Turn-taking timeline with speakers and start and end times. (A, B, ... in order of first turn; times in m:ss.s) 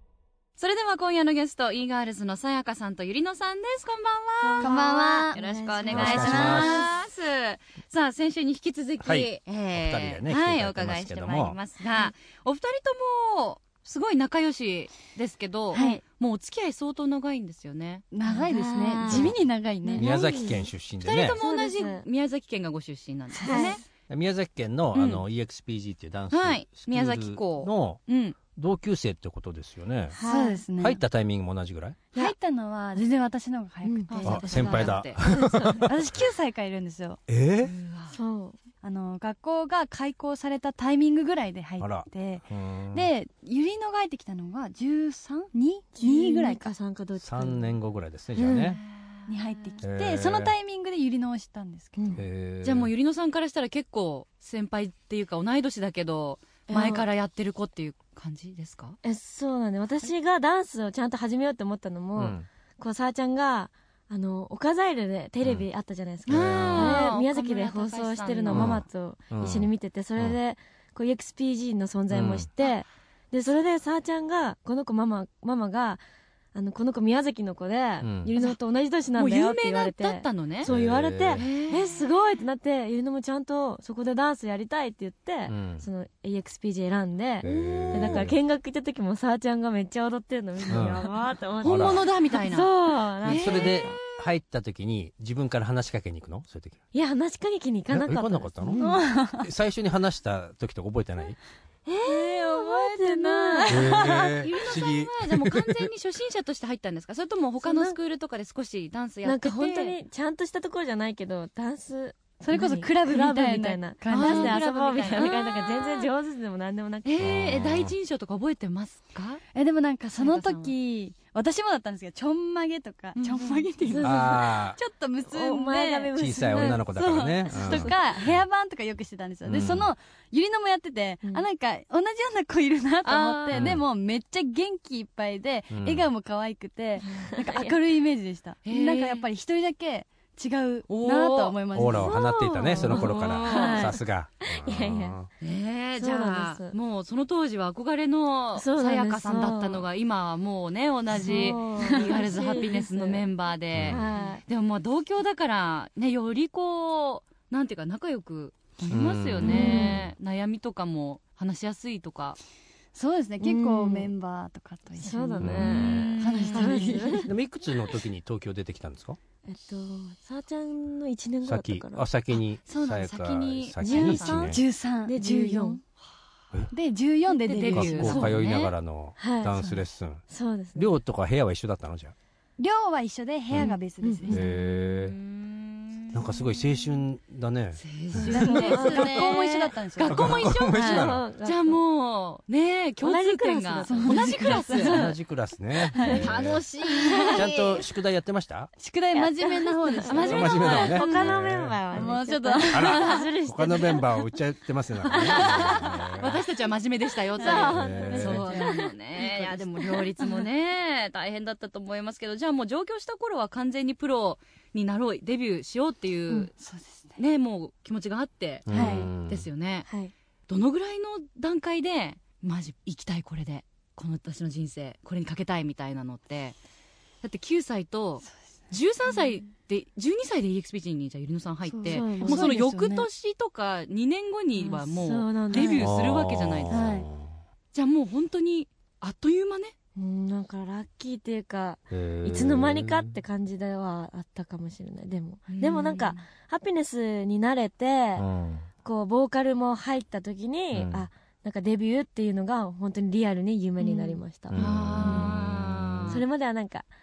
0:00.6-0:18.1 A
0:04.4-0:06.9 B
0:04.6-0:05.3 C
0:05.9-0:06.8 D
0:06.1-0:06.6 C
0:09.0-0:11.6 D
0:15.7-0:16.0 C
0:18.1-0:20.1 C
0:18.2-0:20.7 B
0:19.1-0:19.4 D
0:20.0-0:21.4 D
0:21.0-0:23.8 A
0:21.4-0:22.0 B
0:23.3-0:23.8 C
0:23.4-0:23.8 B
0:24.1-0:28.0 D
0:24.9-0:25.2 A
0:26.3-0:28.4 A
0:28.5-0:30.2 D
0:30.1-0:30.6 B
0:30.2-0:31.0 C
0:30.8-0:32.0 D
0:32.1-0:35.0 C
0:33.8-0:34.1 B
0:34.1-0:35.2 A
0:34.2-0:36.1 D
0:35.2-0:35.9 B
0:35.8-0:37.2 C
0:37.3-0:37.7 D
0:37.6-0:38.2 A
0:38.1-0:38.6 B
0:38.8-0:46.7 C
0:41.8-0:43.1 D
0:46.0-0:47.7 B
0:47.2-0:48.8 D
0:48.4-0:48.8 B
0:48.5-0:49.8 A
0:49.3-0:52.2 C
0:49.8-0:50.5 D
0:52.0-0:52.2 B
0:52.1-0:52.9 D
0:52.6-0:59.0 A
0:56.7-0:57.0 B
0:59.0-1:16.0 B
1:02.2-1:02.4 D
1:06.3-1:07.1 D
1:06.3-1:08.8 A
1:08.5-1:10.4 D
1:12.1-1:12.5 D
1:16.5-1:34.0 B
1:18.0-1:18.3 D
1:19.1-1:20.7 A
1:20.6-1:21.4 D
1:21.4-1:22.0 A
1:25.5-1:25.8 D
1:27.4-1:28.4 D
1:27.7-1:28.1 A
1:30.7-1:31.0 D
1:31.6-1:34.3 A
1:31.6-1:32.1 D
1:33.2-1:36.8 D
1:36.9-1:39.0 B
1:37.9-1:41.4 D
1:38.8-1:39.5 C
1:41.8-1:44.2 B
1:42.1-1:50.0 A
1:43.5-1:44.1 C
1:43.7-1:45.9 D
1:47.6-1:48.0 B
1:49.2-1:57.4 B
1:52.4-1:54.6 C
1:54.1-1:56.1 A
1:57.0-1:59.4 A
1:57.2-1:58.0 D
1:59.5-2:06.2 C
2:00.2-2:00.7 A
2:03.4-2:04.6 B
2:04.0-2:04.8 D
2:05.3-2:06.8 B
2:06.1-2:08.4 D
2:06.8-2:23.0 C
2:07.5-2:07.9 B
2:09.4-2:09.9 D
2:13.0-2:13.8 A
2:13.5-2:13.8 D
2:15.7-2:16.1 D
2:17.0-2:17.7 B
2:18.6-2:19.3 A
2:20.9-2:22.1 A
2:21.7-2:25.3 D
2:22.2-2:25.2 B
2:22.8-2:23.9 A
2:25.4-2:42.4 A
2:26.0-2:26.7 B
2:28.6-2:29.8 B
2:31.1-2:32.2 C
2:31.1-2:33.2 B
2:33.7-2:34.0 D
2:33.8-2:34.4 B
2:38.8-2:39.8 C
2:38.9-2:40.1 D
2:39.4-2:40.0 B
2:42.9-2:47.3 C
2:43.4-2:44.1 B
2:45.0-2:47.3 B
2:45.4-2:46.1 D
2:45.6-2:47.0 A
2:47.2-2:49.2 D
2:49.4-2:52.0 B
2:51.4-2:54.6 D
2:52.6-2:54.6 A
2:53.8-2:55.8 C
2:55.0-2:55.8 B
2:56.7-2:58.4 C
2:57.3-2:58.7 A
2:57.7-3:00.2 D
2:59.2-3:01.0 B
3:00.7-3:02.1 D
3:02.6-3:04.4 C
3:04.0-3:04.5 B
3:04.3-3:05.2 D
3:04.3-3:06.6 A
3:06.1-3:09.1 D
3:07.8-3:15.0 A
3:08.2-3:10.4 C
3:08.3-3:09.1 B
3:10.0-3:11.2 D
3:10.7-3:11.8 B
3:13.0-3:15.2 B
3:13.8-3:15.0 C
3:14.8-3:16.6 D
3:15.9-3:17.4 C
3:16.0-3:17.8 A
3:17.3-3:18.7 D
3:18.8-3:21.3 C
3:19.2-3:24.2 B
3:20.0-3:21.2 A
3:20.2-3:22.0 D
3:21.9-3:23.2 C
3:22.7-3:26.4 D
3:22.8-3:23.2 A
3:25.0-3:25.8 B
3:25.3-3:36.5 A
3:27.4-3:30.4 C
3:27.4-3:28.9 B
3:27.7-3:28.4 D
3:36.6-3:37.2 C
3:37.2-3:39.9 A
3:38.7-3:39.5 D
3:38.7-3:39.1 C
3:39.9-3:40.1 B
3:40.5-3:46.6 A
3:47.2-3:57.0 A
3:51.6-3:53.1 C
3:51.8-3:52.5 B
3:54.6-3:55.9 B
3:55.8-3:57.3 D
3:56.7-3:57.1 C
3:57.7-3:59.7 A
4:00.0-4:08.2 B
4:01.9-4:03.1 D
4:05.5-4:06.2 A
4:08.2-4:08.7 D
4:08.8-4:14.7 B
4:10.7-4:11.1 D
4:13.8-4:14.2 C
4:14.5-4:16.2 D
4:14.6-4:16.2 A
4:16.1-4:16.9 B